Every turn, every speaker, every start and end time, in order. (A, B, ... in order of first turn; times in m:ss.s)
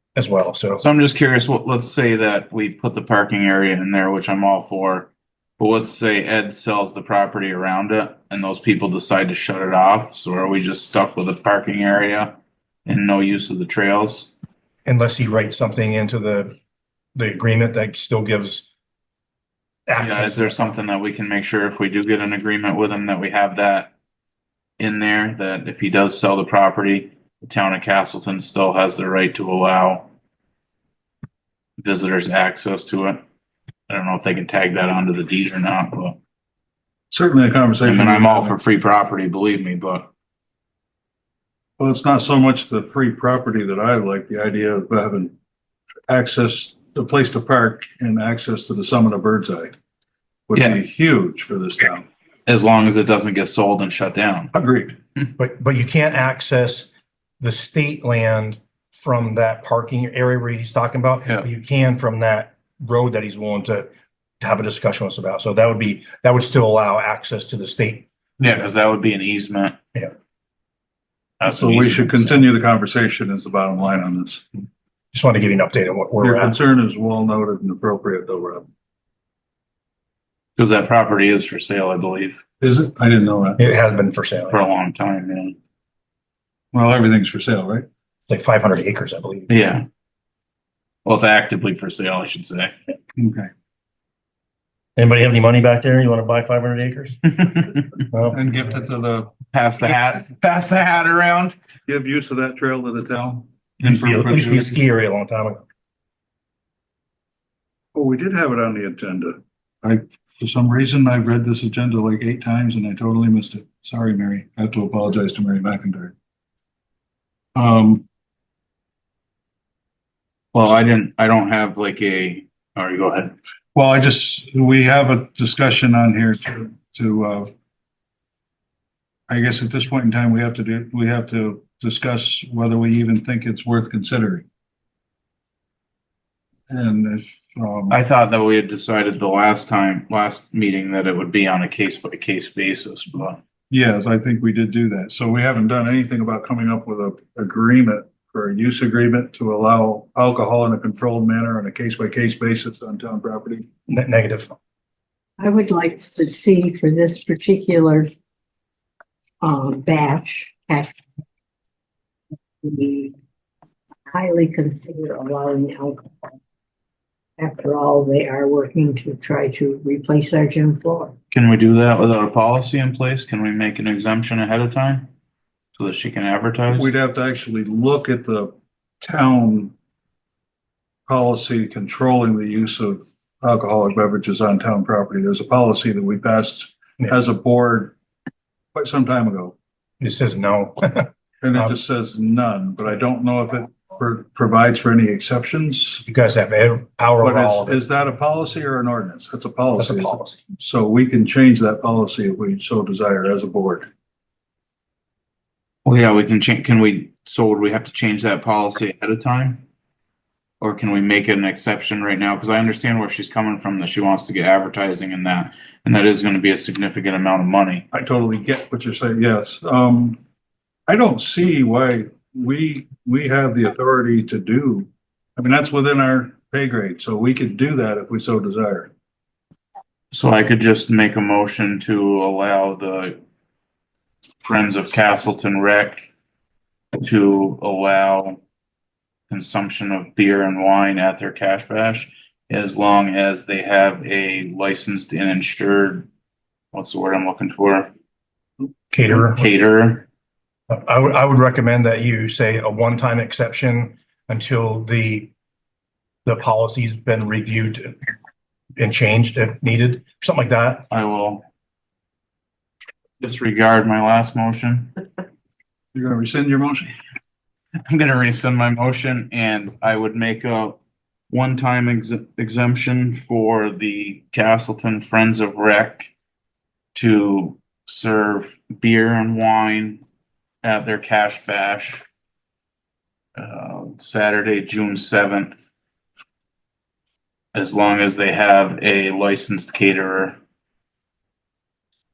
0:00.2-0:00.9 A
0:00.8-0:14.3 B
0:14.9-0:16.6 A
0:17.2-0:18.7 A
0:19.9-0:20.6 A
0:20.0-0:23.9 B
0:24.8-0:30.1 B
0:31.8-0:33.2 B
0:33.9-0:36.2 B
0:37.1-0:38.6 C
0:37.8-0:40.1 B
0:41.8-0:45.3 C
0:46.1-0:49.7 C
0:50.5-0:52.1 C
0:52.5-0:54.5 B
0:54.5-0:55.0 C
0:55.4-1:03.9 A
1:04.4-1:08.1 A
1:08.4-1:09.8 B
1:11.4-1:12.4 B
1:11.4-1:14.4 C
1:15.1-1:16.6 A
1:16.2-1:18.6 C
1:20.6-1:22.4 B
1:22.6-1:23.6 C
1:23.6-1:24.6 A
1:24.5-1:25.6 B
1:26.7-1:27.9 C
1:28.3-1:29.6 A
1:29.5-1:29.8 B
1:31.0-1:32.7 B
1:33.2-1:33.5 C
1:35.0-1:37.3 A
1:38.1-1:38.4 A
1:38.3-1:39.3 C
1:39.5-1:41.6 B
1:41.9-1:44.8 C
1:43.8-1:45.6 A
1:47.9-1:56.1 C
1:57.6-1:58.0 C
2:00.5-2:03.4 B
2:03.8-2:07.5 C
2:09.3-2:14.5 C
2:16.7-2:18.0 C
2:17.9-2:23.4 B
2:23.7-2:33.7 C
2:33.9-2:34.6 A
2:35.4-2:38.1 D
2:39.4-2:41.0 D
2:42.6-2:43.2 D
2:44.1-2:46.3 D
2:47.4-2:51.1 D
2:51.3-2:55.1 B
2:55.8-2:56.9 B
2:56.7-2:59.7 C
3:01.1-3:08.0 C
3:08.7-3:09.6 C
3:10.0-3:11.7 A
3:11.4-3:16.0 C
3:16.1-3:17.8 A
3:17.2-3:23.9 C
3:19.8-3:20.4 A
3:25.8-3:29.6 B
3:30.6-3:37.8 B
3:37.9-3:40.2 C
3:40.9-3:48.9 C
3:50.1-3:53.2 B
3:54.4-3:56.1 B
3:57.0-3:58.4 B
3:59.3-4:06.1 B
4:06.7-4:07.9 B
4:08.9-4:09.5 A
4:09.1-4:10.1 B
4:10.7-4:15.3 A
4:16.2-4:18.0 A
4:18.8-4:20.9 A
4:20.9-4:21.5 B
4:23.2-4:24.9 B
4:25.9-4:26.9 C
4:27.9-4:30.8 B
4:31.3-4:36.1 B
4:36.9-4:40.0 B
4:40.6-4:42.1 B
4:43.4-4:45.6 B
4:47.5-4:50.4 B